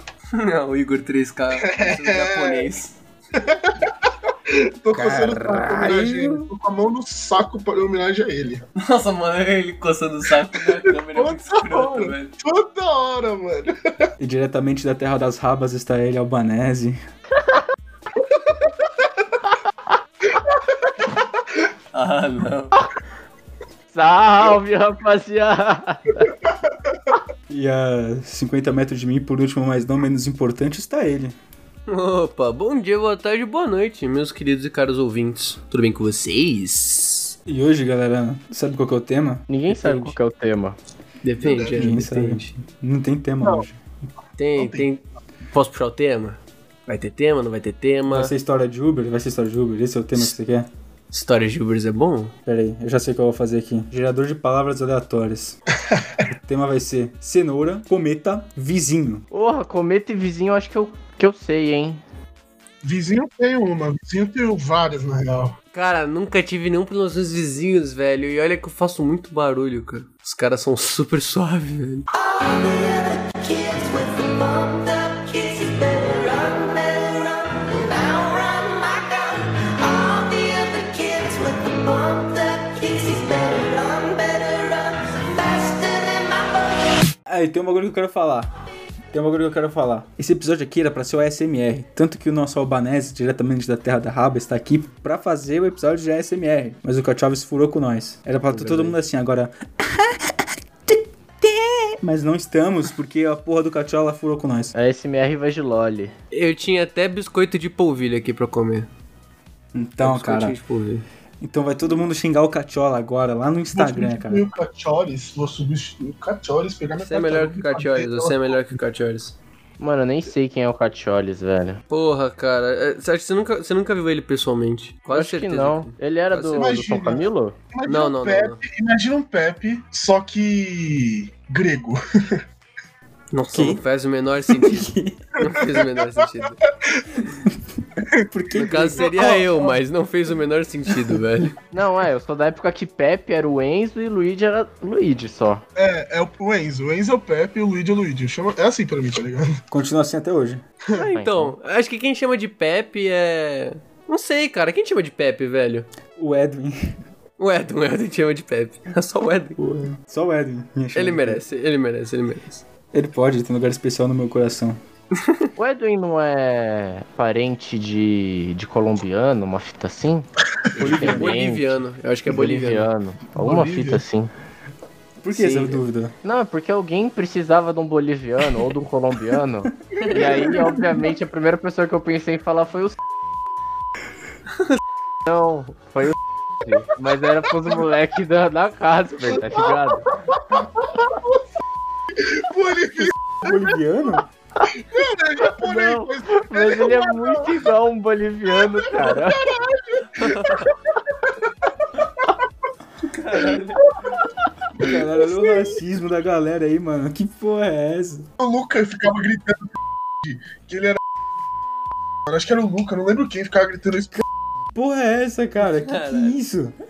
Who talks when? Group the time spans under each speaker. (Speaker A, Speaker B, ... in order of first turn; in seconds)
Speaker A: 0.3-2.9, 8.8-12.3, 21.9-22.7, 31.9-37.3, 39.7-40.1, 41.2-42.5, 44.4-48.3, 51.1-52.3, 65.7-72.1, 106.3-108.9, 110.0-111.0, 117.0-119.3, 121.9-126.7, 127.8-128.6, 133.3-136.6, 138.5-141.6, 150.9-155.9, 157.4-159.6, 160.9-162.6, 170.7-172.9, 180.0-180.7, 200.2-200.7, 203.0-204.0, 215.6-216.4
Speaker B: 1.5-2.7, 3.4-8.6, 10.9-14.1, 18.2-18.7, 20.3-21.6, 26.5-26.9, 41.4-42.0, 44.5-44.9, 55.9-56.2, 62.8-65.5, 113.7-118.6, 126.5-132.4, 135.5-136.3, 138.5-139.8, 145.7-149.6, 173.3-174.0, 180.0-181.0, 189.4-191.3, 192.2-193.7, 194.7-197.7, 198.6-202.3, 203.4-204.1, 204.8-205.7, 208.4-209.7, 210.2-211.0, 212.3-214.2
Speaker C: 4.9-6.5, 14.2-17.0, 27.5-31.4, 37.5-39.9, 41.7-43.8, 48.1-50.7, 52.5-55.6, 56.3-59.2, 87.3-88.5, 89.1-100.1, 102.0-104.7, 109.7-110.6, 111.4-114.4, 133.5-133.8, 134.5-135.3, 138.3-139.3, 149.7-150.6, 156.2-157.0, 159.6-161.4, 162.9-164.8, 170.8-171.4, 175.2-176.1, 193.3-194.2, 204.8-208.3, 214.7-216.8
Speaker D: 23.9-26.3, 39.5-40.8, 59.3-62.0, 98.5-99.0, 104.7-106.1, 119.8-121.8, 125.1-127.5, 141.7-145.6, 151.0-151.5, 165.6-174.3, 175.3-183.0, 185.2-190.1, 195.6-199.4
Speaker E: 72.2-86.8, 101.4-101.9